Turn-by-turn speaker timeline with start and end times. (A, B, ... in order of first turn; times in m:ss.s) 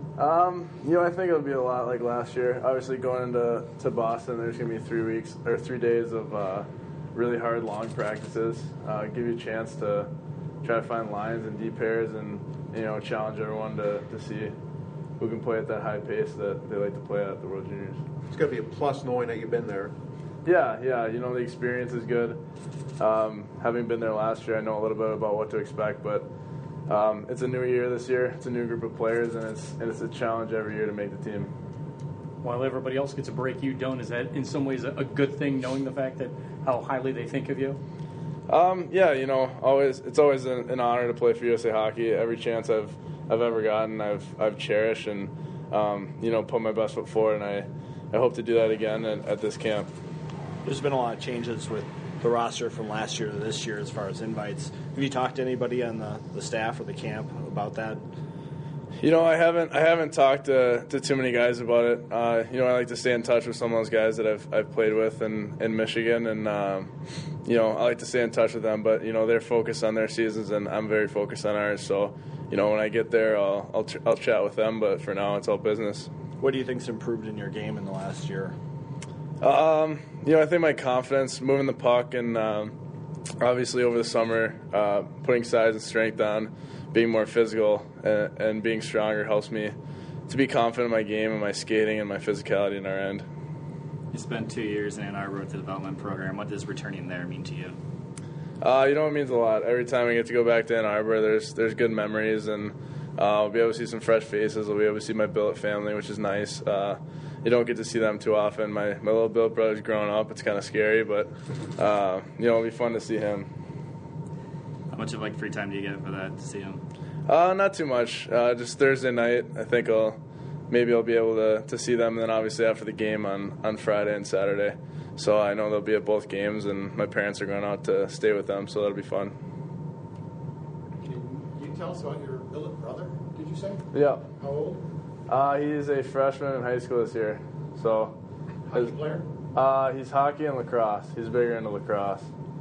0:00.2-0:10.1 A
0:10.6-0:14.5 A
0:15.2-0:18.0 A
0:18.3-0:19.9 B
0:20.4-0:22.4 A
0:23.0-0:26.3 A
0:26.9-0:31.5 A
0:32.4-0:37.8 C
0:38.5-0:49.9 A
0:50.6-0:58.0 D
0:59.0-1:06.9 A
1:07.4-1:16.1 A
1:16.4-1:18.6 D
1:19.4-1:22.8 A
1:23.4-1:29.7 A
1:30.3-1:33.2 A
1:34.1-1:37.8 E
1:38.6-1:53.5 A
1:54.9-1:56.8 E
1:57.3-2:00.2 A
2:00.7-2:09.3 A
2:11.3-2:13.2 B
2:13.9-2:14.3 A
2:14.4-2:14.7 B
2:15.3-2:18.1 A
2:18.7-2:19.2 B
2:19.6-2:22.3 A